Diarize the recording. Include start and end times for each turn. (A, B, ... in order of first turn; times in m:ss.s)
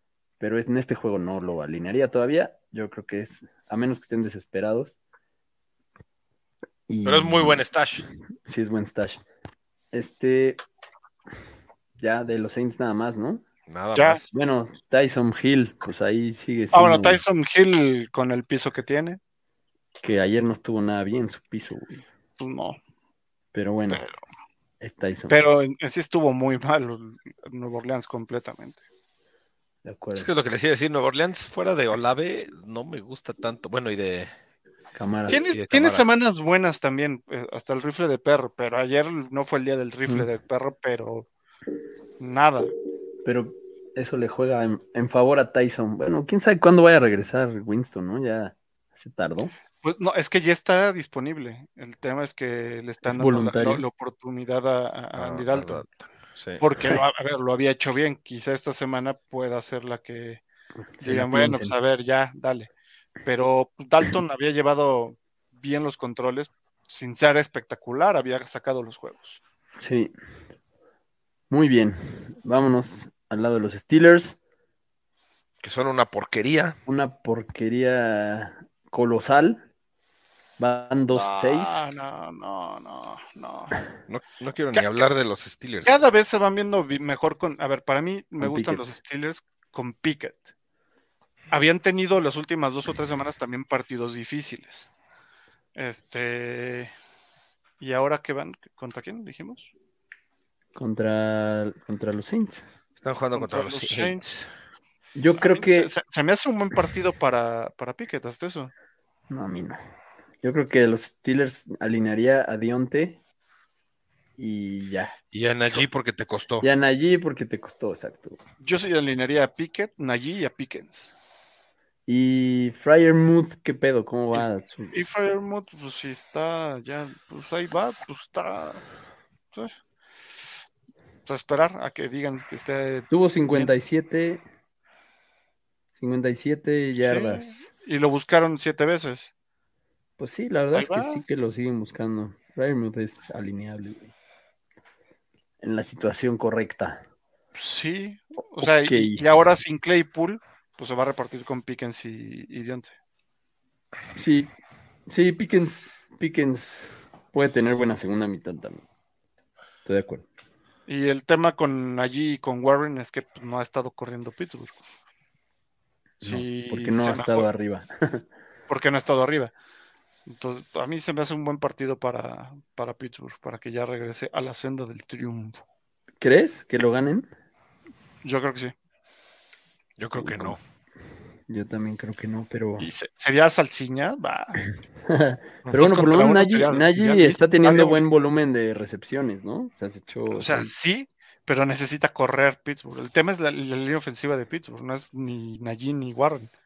0:00.4-0:05.0 A
0:06.9-0:07.7 A
0:07.0-0:08.1 B
0:08.5-0:09.2 A
0:09.9-0:10.6 A
0:12.0-0:13.4 A
0:13.7-0:14.3 B
0:14.0-0:14.2 C
0:14.3-0:17.2 A
0:16.7-0:19.2 C
0:20.0-0:22.0 A
0:22.4-0:22.8 C
0:23.5-0:24.0 A
0:23.9-0:24.2 C
0:24.8-0:25.4 A
0:25.3-0:28.8 C
0:29.8-0:30.3 A
0:30.2-0:34.3 B
0:34.9-0:35.4 A
0:35.3-0:41.3 C
0:35.5-0:36.0 B
0:42.2-0:42.7 C
0:43.2-0:49.5 A
0:49.8-0:55.8 C
0:53.0-0:53.8 A
0:55.2-0:56.6 B
0:56.6-1:00.4 C
1:01.0-1:01.7 A
1:01.0-1:02.7 C
1:03.2-1:09.4 C
1:09.8-1:10.1 A
1:11.5-1:14.4 A
1:15.6-1:16.8 B
1:16.9-1:19.6 A
1:20.6-1:21.8 A
1:21.2-1:23.8 C
1:24.1-1:25.9 B
1:25.9-1:30.5 C
1:28.4-1:28.8 A
1:31.5-1:34.9 C
1:35.8-1:36.9 C
1:37.8-1:39.7 C
1:40.8-1:42.7 A
1:43.0-1:44.5 B
1:43.3-1:44.2 C
1:45.2-1:45.9 A
1:45.4-1:48.7 C
1:49.3-1:49.8 A
1:50.4-1:53.2 A
1:54.4-1:55.2 A
1:55.3-1:56.7 B
1:56.6-1:58.4 A
1:58.6-2:01.1 C
2:02.1-2:05.0 A
2:04.3-2:08.8 C
2:11.3-2:13.7 C
2:13.1-2:14.4 A
2:16.0-2:17.7 A
2:17.0-2:19.3 C
2:20.2-2:24.1 A
2:20.7-2:21.2 C
2:25.6-2:27.0 A
2:27.6-2:32.9 C
2:28.6-2:29.2 A
2:34.2-2:34.5 A
2:35.1-2:38.8 A
2:39.8-2:40.2 A
2:40.9-2:44.8 C
2:46.2-2:47.5 C
2:46.2-2:48.2 A
2:48.7-2:49.5 C
2:50.3-2:55.6 C
2:56.2-2:57.3 A
2:58.2-2:58.7 C
3:00.0-3:00.6 B
3:00.2-3:00.6 A
3:01.5-3:02.9 A
3:02.8-3:04.7 C
3:05.1-3:10.7 A
3:05.7-3:08.0 C
3:10.3-3:16.5 C